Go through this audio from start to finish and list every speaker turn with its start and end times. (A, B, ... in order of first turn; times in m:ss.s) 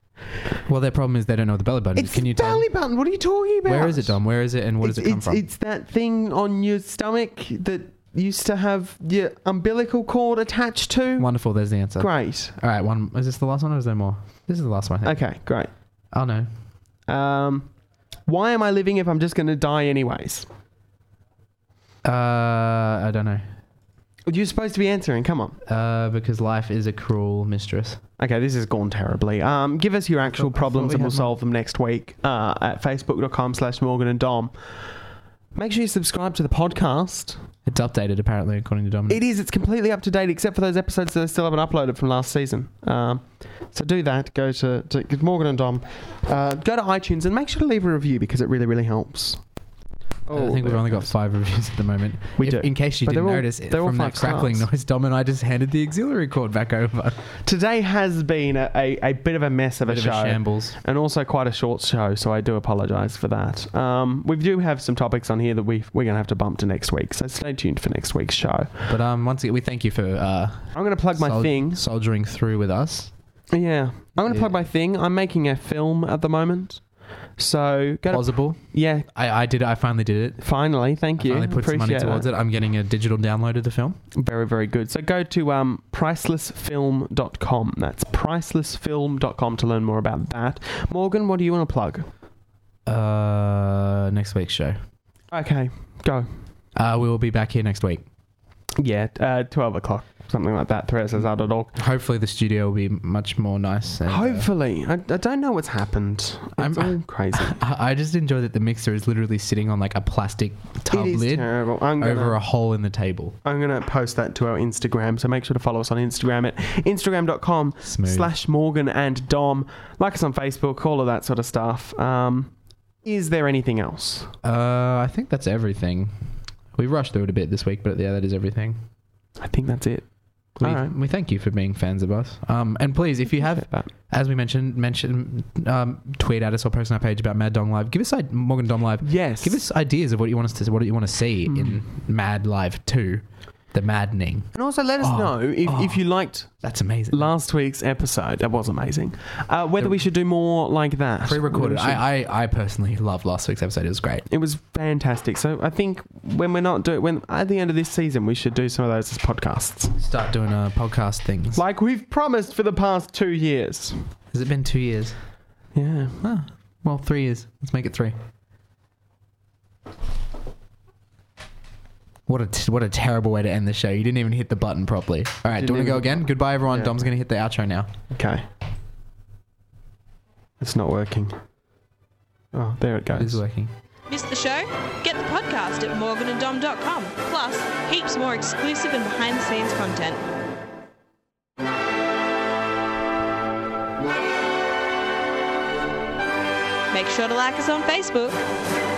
0:00.7-0:02.7 A
0:01.9-0:04.2 B
0:03.6-0:05.4 A
0:04.8-0:11.3 B
0:11.2-0:15.2 A
0:12.0-0:12.5 B
0:15.0-0:15.7 B
0:16.1-0:16.5 A
0:17.1-0:17.7 B
0:18.3-0:20.5 B
0:22.0-0:23.5 A
0:24.3-0:25.6 B
0:25.6-0:28.0 A
0:28.2-0:34.5 B
0:30.2-0:31.3 A
0:35.5-0:37.4 B
0:37.6-0:39.2 A
0:39.1-0:49.4 B
0:50.2-0:51.1 B
0:50.3-0:57.2 A
0:52.4-0:54.7 B
0:57.4-1:08.8 B
0:59.8-1:00.8 A
1:08.9-1:13.1 A
1:10.7-1:11.8 B
1:13.5-1:19.1 B
1:14.2-1:14.6 A
1:18.1-1:20.4 A
1:20.4-1:22.2 B
1:21.2-1:24.0 A
1:24.1-1:32.1 B
1:32.8-1:34.8 A
1:35.3-1:36.3 B
1:36.7-1:38.0 A
1:38.8-1:41.8 B
1:41.8-1:44.5 A
1:44.1-1:47.6 B
1:46.6-1:53.4 A
1:50.9-1:52.4 B
1:53.4-2:04.3 B
1:57.8-1:58.3 A
2:04.4-2:08.8 A
2:09.4-2:10.9 B
2:10.6-2:26.0 A
2:13.4-2:13.9 B
2:19.0-2:19.6 B
2:21.5-2:21.8 B
2:24.5-2:32.0 B
2:26.6-2:27.3 A
2:31.2-2:34.2 A
2:34.3-2:40.0 B
2:40.0-2:41.6 A
2:41.5-2:44.1 B
2:44.3-2:45.2 A
2:45.7-2:46.2 B
2:46.2-2:48.2 A
2:52.3-2:57.9 A
2:55.5-2:57.0 B
2:58.1-2:58.4 B
3:00.6-3:01.4 B
3:02.5-3:03.4 B
3:03.1-3:03.7 A
3:04.1-3:10.2 C
3:16.9-3:18.4 C